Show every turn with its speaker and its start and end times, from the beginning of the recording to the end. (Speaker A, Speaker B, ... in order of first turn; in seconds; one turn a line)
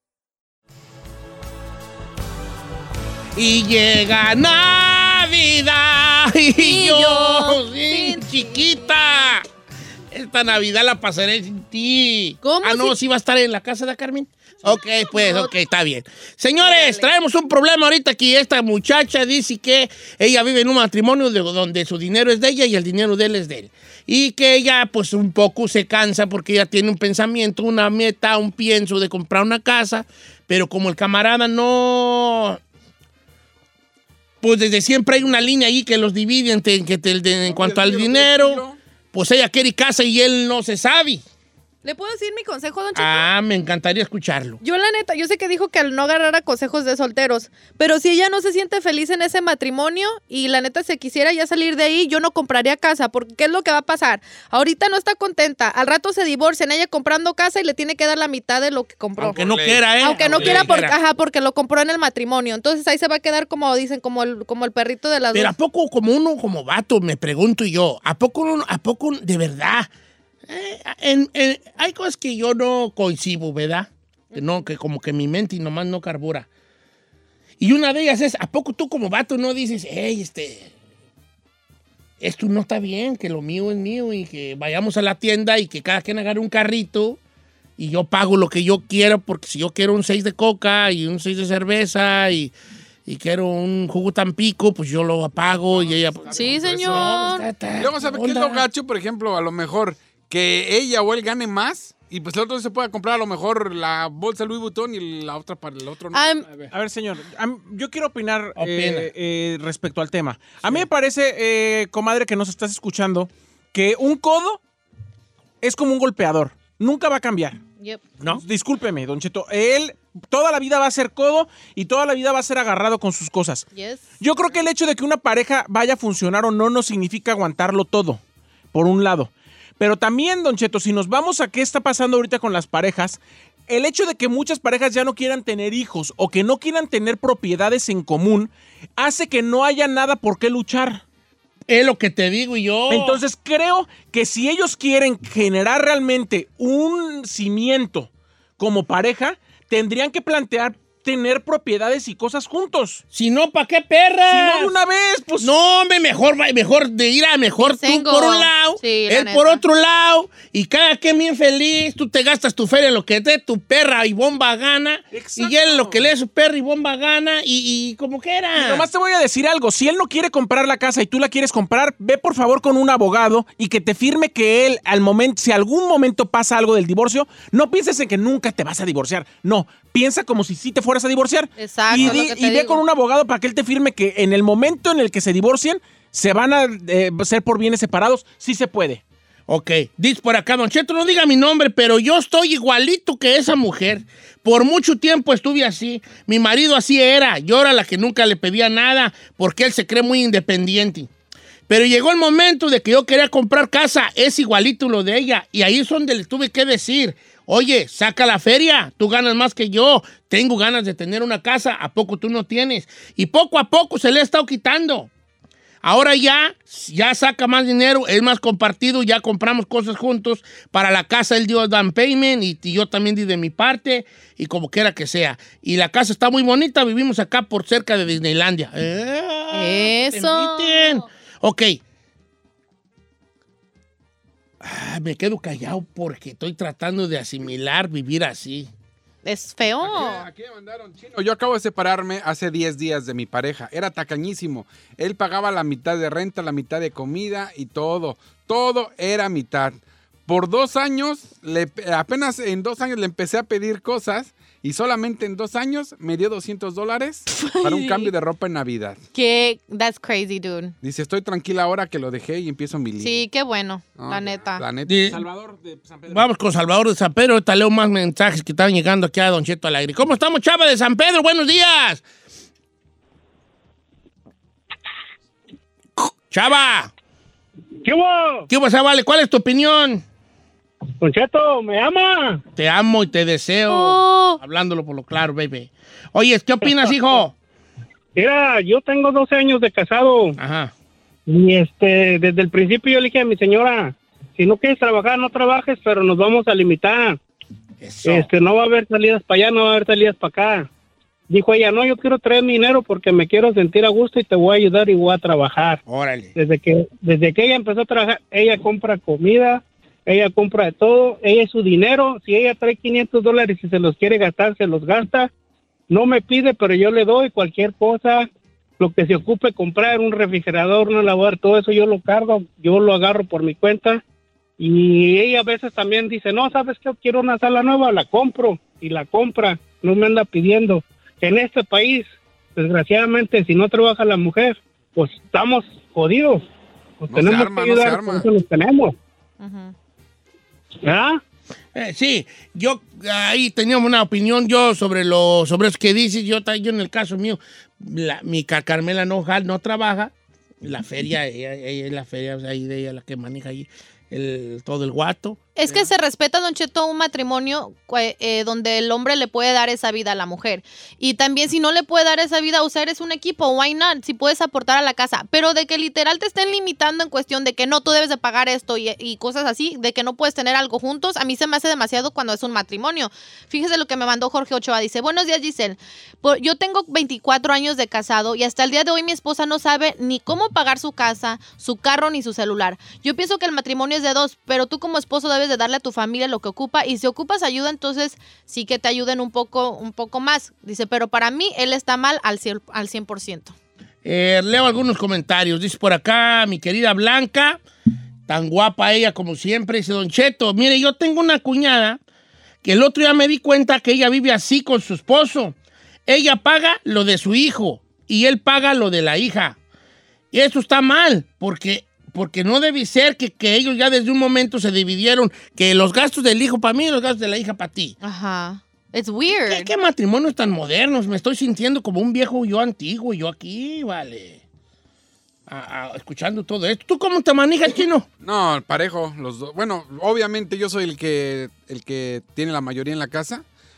Speaker A: 3.3-9.4
Speaker B: 6.6-8.9
Speaker A: 10.1-32.6
Speaker B: 12.4-13.0
Speaker B: 15.1-15.5
Speaker B: 16.6-17.1
Speaker A: 34.4-41.2
Speaker C: 37.4-38.8
Speaker B: 41.8-43.3
Speaker A: 42.9-44.6
Speaker B: 44.6-59.4
Speaker C: 59.2-60.7
Speaker A: 59.3-61.0
Speaker B: 60.0-65.5
Speaker A: 65.3-69.9
Speaker A: 70.5-76.5
Speaker B: 74.3-74.6
Speaker A: 77.6-80.7
Speaker A: 82.2-87.2
Speaker A: 87.8-92.5
Speaker A: 93.0-98.7
Speaker C: 95.5-106.3
Speaker B: 96.3-97.5
Speaker B: 106.1-106.5
Speaker D: 106.7-114.6
Speaker A: 108.5-109.1
Speaker D: 115.6-117.6
Speaker D: 118.2-123.7
Speaker B: 123.7-124.0
Speaker D: 124.2-128.2
Speaker D: 128.7-141.0
Speaker A: 141.7-143.2
Speaker D: 142.9-153.0
Speaker A: 153.1-154.7
Speaker D: 154.3-155.5
Speaker A: 155.4-168.9
Speaker B: 157.6-159.6
Speaker D: 165.1-166.1
Speaker D: 168.6-189.0
Speaker B: 181.6-182.8
Speaker A: 189.5-201.1
Speaker A: 201.7-215.1
Speaker A: 215.8-231.8
Speaker B: 229.5-231.0
Speaker A: 234.6-238.7
Speaker B: 239.2-240.3
Speaker C: 239.8-259.0
Speaker B: 257.3-258.1
Speaker B: 259.1-260.7
Speaker C: 260.8-263.2
Speaker B: 263.0-264.6
Speaker C: 263.9-265.0
Speaker A: 264.8-265.2
Speaker D: 265.1-266.3
Speaker A: 266.1-272.0
Speaker A: 276.0-276.9
Speaker E: 277.8-278.5
Speaker A: 278.5-280.0
Speaker E: 281.0-282.4
Speaker A: 282.6-287.3
Speaker B: 283.7-284.4
Speaker E: 286.6-287.2
Speaker E: 288.1-290.4
Speaker A: 290.4-290.7
Speaker E: 291.3-297.2
Speaker A: 297.8-298.3
Speaker E: 298.0-300.7
Speaker E: 301.3-305.8
Speaker A: 305.9-306.3
Speaker E: 306.4-315.3
Speaker E: 315.9-318.3
Speaker E: 318.8-324.0
Speaker E: 324.6-336.4
Speaker E: 337.0-338.9
Speaker C: 337.1-338.2
Speaker B: 339.4-339.7
Speaker E: 340.8-341.2
Speaker A: 341.7-355.9
Speaker B: 355.6-393.5
Speaker A: 394.0-397.6
Speaker A: 398.3-402.0
Speaker A: 402.6-405.6
Speaker A: 406.1-409.6
Speaker A: 410.3-417.9
Speaker B: 418.0-419.7
Speaker A: 419.3-424.4
Speaker A: 425.5-428.1
Speaker C: 428.2-433.4